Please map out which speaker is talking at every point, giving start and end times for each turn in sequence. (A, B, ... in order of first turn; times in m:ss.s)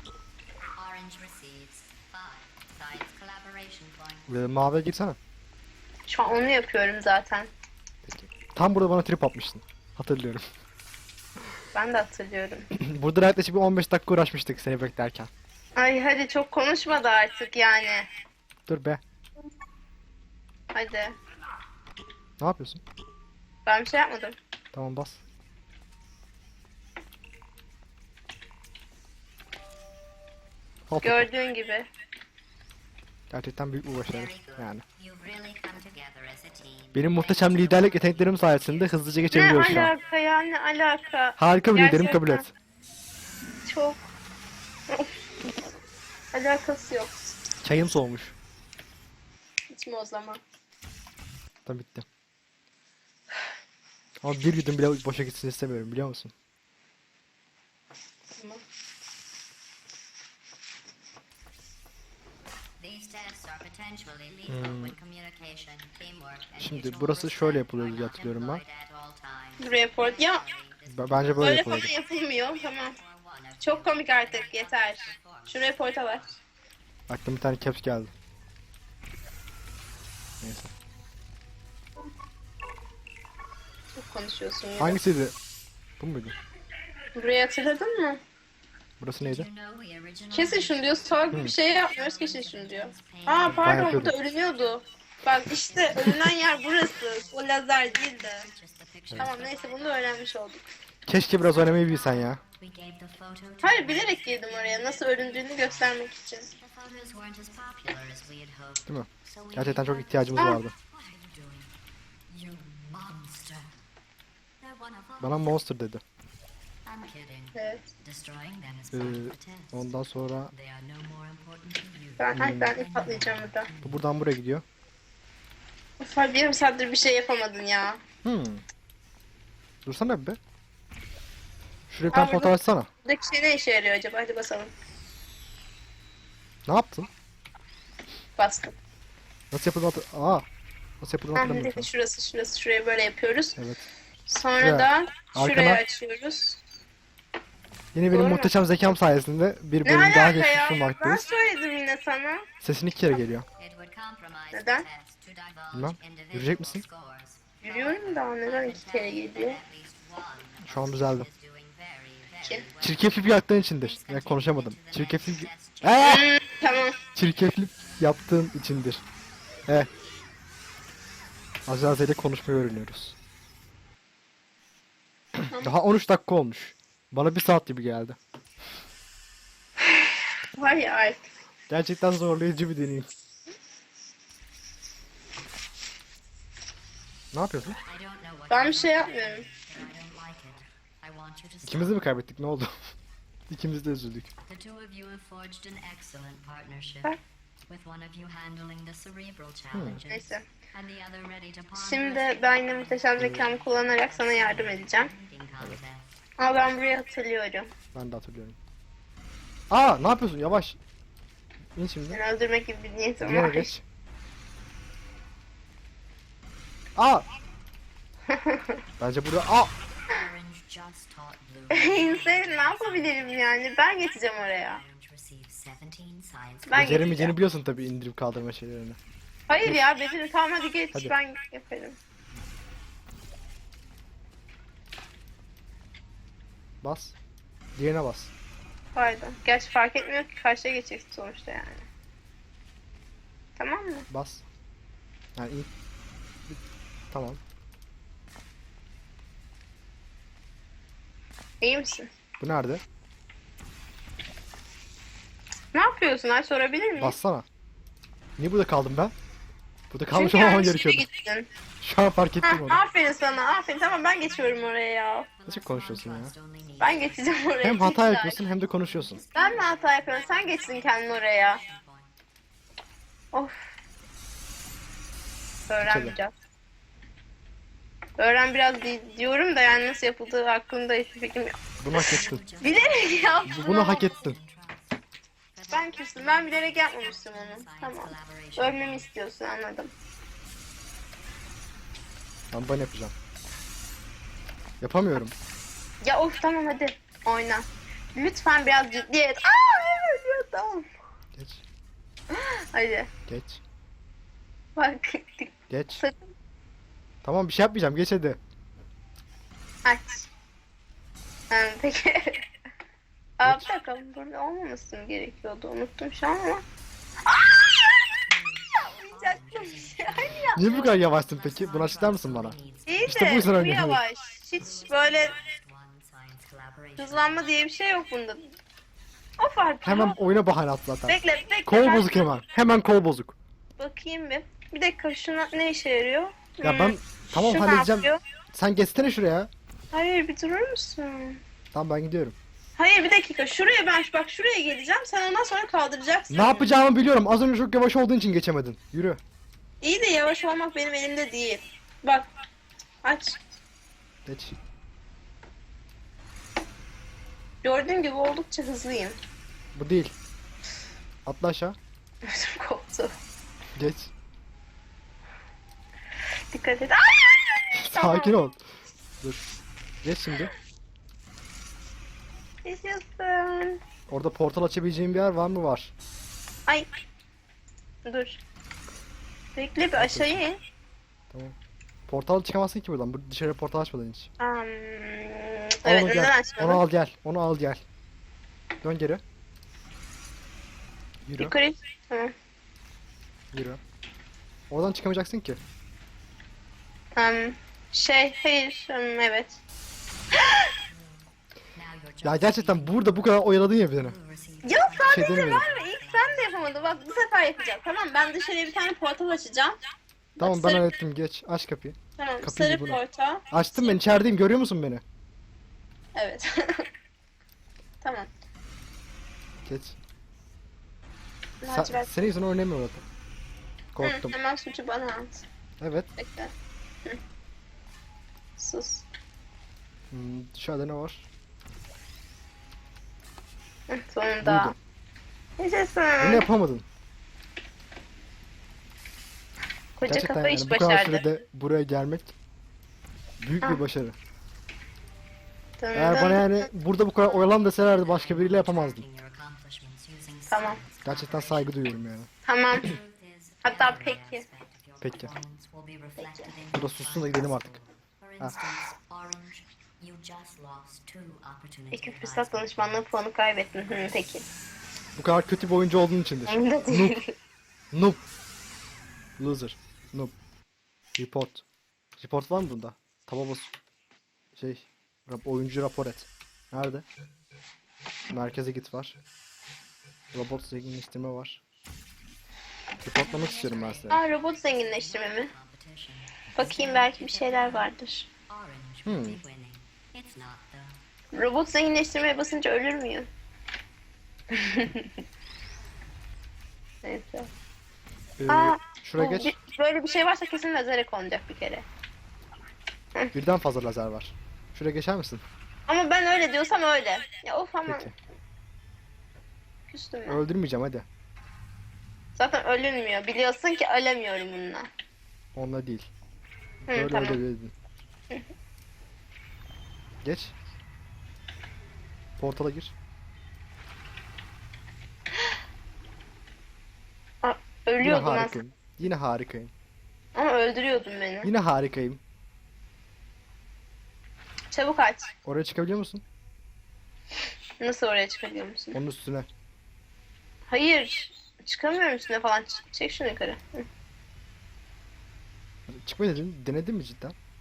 0:00.8-0:04.3 A
0:04.3-0:05.2 B
0:06.1-0:07.5 C
0:08.0-0:10.4 B
0:11.7-0:12.7 C
0:12.7-0:15.3 B
0:15.8-0:18.1 C
0:18.7-0:19.0 B
0:20.7-0:21.2 C
0:22.4-0:22.8 B
0:23.7-0:24.4 C
0:24.7-0:25.2 B
0:30.9-0:31.3 B
0:31.0-0:31.9 C
0:33.3-0:34.8 B
0:34.1-0:40.1 A
0:37.0-0:39.9 B
0:39.3-0:42.5 C
0:41.4-0:42.5 B
0:43.7-0:44.0 C
0:46.3-0:47.3 C
0:47.6-0:48.4 B
0:49.7-0:50.4 C
0:51.6-0:52.1 B
0:54.2-0:56.3 B
1:02.8-1:16.4 A
1:04.5-1:05.0 B
1:06.6-1:08.6 B
1:09.6-1:10.4 C
1:10.9-1:11.9 B
1:11.4-1:13.0 C
1:13.6-1:16.3 C
1:17.1-1:18.1 B
1:20.4-1:20.7 B
1:23.9-1:25.0 C
1:24.8-1:25.4 B
1:26.0-1:26.4 B
1:27.2-1:28.2 C
1:29.0-1:29.5 B
1:29.2-1:34.7 A
1:30.3-1:38.5 C
1:33.6-1:34.2 B
1:35.4-1:40.4 A
1:39.2-1:40.6 C
1:41.1-1:42.4 B
1:41.2-1:51.7 A
1:43.6-1:46.5 C
1:48.9-1:50.7 B
1:52.3-1:53.8 A
1:54.6-1:55.5 A
1:55.2-1:56.0 B
1:56.8-2:04.0 A
1:57.6-1:57.8 C
1:58.9-2:00.5 B
2:02.2-2:03.7 C
2:02.4-2:02.8 B
2:03.8-2:04.6 B
2:06.0-2:08.0 C
2:08.2-2:08.6 B
2:09.8-2:10.4 B
2:11.9-2:12.9 B
2:12.1-2:14.7 C
2:16.7-2:17.1 B
2:18.4-2:18.8 C
2:19.5-2:20.5 B
2:21.0-2:21.9 B
2:21.4-2:23.6 C
2:23.6-2:23.9 B
2:24.3-2:26.6 C
2:24.6-2:25.8 B
2:27.9-2:31.2 B
2:28.1-2:28.5 C
2:29.8-2:32.5 C
2:32.6-2:33.4 B
2:33.6-2:46.3 A
2:34.5-2:34.9 C
2:35.7-2:36.8 B
2:37.6-2:39.6 C
2:40.6-2:41.3 B
2:42.8-2:46.3 B
2:46.0-2:47.0 C
2:47.2-2:49.0 B
2:51.7-2:53.2 B
2:55.4-2:58.2 B
3:00.6-3:01.3 C
3:01.7-3:03.1 B
3:07.3-3:07.8 B
3:07.8-3:12.0 A
3:08.5-3:09.4 C
3:11.6-3:12.7 B
3:13.5-3:14.3 B
3:14.5-3:26.2 A
3:19.7-3:20.0 B
3:20.1-3:20.4 C
3:21.8-3:25.1 C
3:26.4-3:27.7 C
3:27.9-3:28.6 B
3:29.7-3:30.8 B
3:31.8-3:32.2 B
3:32.1-3:33.7 C
3:33.2-3:33.8 B
3:37.0-3:37.2 B
3:38.3-3:38.8 C
3:39.0-3:39.7 B
3:40.1-3:43.7 A
3:41.7-3:44.8 C
3:44.4-3:47.0 A
3:46.7-3:47.3 C
3:46.8-3:49.0 B
3:49.5-3:52.0 C
3:56.8-3:57.2 B
3:57.8-3:58.3 B
3:59.0-4:01.9 C
4:03.6-4:04.1 C
4:04.1-4:04.4 B
4:05.4-4:05.7 B
4:07.1-4:07.4 B
4:11.6-4:12.1 C
4:12.4-4:12.8 B
4:15.7-4:17.2 C
4:17.0-4:17.5 B
4:18.4-4:19.1 B
4:19.9-4:21.1 B
4:20.1-4:21.5 C
4:21.8-4:22.8 B
4:22.4-4:25.3 C
4:22.9-4:32.1 A
4:25.5-4:26.3 B
4:26.8-4:28.4 C
4:27.6-4:29.2 B
4:29.4-4:31.6 C
4:33.3-4:33.8 C
4:35.7-4:36.3 C
4:35.8-4:36.2 B
4:38.2-4:44.1 C
4:41.8-4:42.4 B
4:41.9-4:45.0 A
4:43.5-4:44.4 B
4:45.5-4:49.1 A
4:45.7-4:49.9 C
4:52.5-4:53.1 B
4:54.8-4:55.3 B
4:56.0-5:00.9 C
5:01.4-5:01.6 B
5:02.3-5:03.1 C
5:03.3-5:03.6 B
5:04.8-5:06.2 C
5:05.7-5:06.0 B
5:07.2-5:08.4 B
5:09.8-5:10.3 C
5:11.5-5:12.4 C
5:13.4-5:16.6 C
5:13.4-5:13.7 B
5:17.3-5:18.1 C
5:18.3-5:23.4 A
5:18.8-5:20.7 C
5:20.5-5:24.0 B
5:22.9-5:25.4 C
5:24.6-5:27.6 A
5:27.0-5:28.5 C
5:29.4-5:30.2 C
5:29.8-5:33.4 B
5:31.1-5:32.2 C
5:33.8-5:38.2 C
5:36.6-5:39.5 B
5:39.9-5:41.4 C
5:41.7-5:42.4 B
5:42.8-5:46.7 C
5:46.3-5:49.2 B
5:49.8-5:52.3 C
5:53.0-5:53.4 C
5:54.3-5:54.6 B
5:57.6-5:59.2 C
5:59.8-6:00.1 B
6:01.3-6:01.8 B
6:02.2-6:03.1 C
6:03.8-6:04.1 B
6:06.5-6:08.3 C
6:07.8-6:08.6 B
6:10.0-6:10.5 B
6:12.6-6:13.8 C
6:14.1-6:15.9 B
6:18.1-6:18.4 C
6:19.6-6:20.6 C
6:20.0-6:20.4 B
6:21.3-6:21.6 B
6:22.1-6:24.3 B
6:24.4-6:26.8 C
6:25.8-6:27.8 B
6:28.8-6:29.2 B
6:31.3-6:31.6 B
6:31.4-6:32.3 C
6:33.5-6:33.8 B
6:34.7-6:35.6 B
6:37.2-6:39.6 C
6:40.9-6:47.1 A
6:42.2-6:44.2 B
6:44.6-6:49.8 C
6:45.1-6:45.7 B
6:50.4-6:50.9 C
6:50.4-6:55.0 B
6:52.2-6:53.4 C
6:56.2-6:56.9 C
6:58.0-6:58.3 C
6:59.6-7:00.0 B
7:01.6-7:02.3 C
7:01.7-7:03.0 B
7:03.9-7:04.3 B
7:04.0-7:05.5 C
7:05.8-7:06.1 B
7:06.2-7:06.5 C
7:08.6-7:09.1 C
7:10.1-7:11.3 B
7:13.9-7:14.8 C
7:14.4-7:14.8 B
7:15.6-7:16.4 C
7:16.2-7:16.9 B
7:20.0-7:21.3 C
7:20.1-7:22.4 B
7:23.4-7:24.2 B
7:25.8-7:26.7 C
7:26.0-7:29.0 B
7:27.2-7:32.2 A
7:30.5-7:30.8 C
7:31.0-7:32.3 B
7:32.4-7:33.0 C
7:32.8-7:43.2 A
7:33.6-7:34.4 C
7:35.0-7:35.3 B
7:36.7-7:37.8 B
7:41.9-7:44.5 C
7:45.2-7:47.2 B
7:46.5-7:47.3 C
7:47.9-7:48.2 B
7:49.4-7:50.4 B
7:51.2-7:51.6 B
7:52.2-7:53.7 B
7:54.6-7:57.1 B
7:58.3-7:59.2 B
8:00.3-8:01.6 B
8:03.0-8:04.2 B
8:03.0-8:07.9 A
8:04.1-8:05.5 C
8:06.6-8:08.3 C
8:08.5-8:11.0 A
8:09.1-8:09.4 B
8:11.3-8:13.3 C
8:14.5-8:15.1 C
8:17.0-8:17.5 C
8:18.4-8:19.6 B
8:18.5-8:21.8 C
8:23.3-8:25.4 B
8:25.9-8:28.1 C
8:27.9-8:28.1 B
8:29.9-8:30.4 C
8:30.3-8:31.1 B
8:32.4-8:34.9 C
8:35.6-8:36.1 B
8:36.9-8:37.7 B
8:36.9-8:37.4 C
8:40.2-8:40.6 B
8:42.4-8:42.9 B
8:47.4-8:48.6 C
8:48.0-8:49.7 B
8:50.4-8:51.5 C
8:51.4-8:52.2 B
8:54.7-8:55.3 C
8:55.4-8:56.2 B
8:57.8-8:59.0 C
8:58.9-8:59.5 B
9:00.7-9:03.9 C
9:05.9-9:07.4 B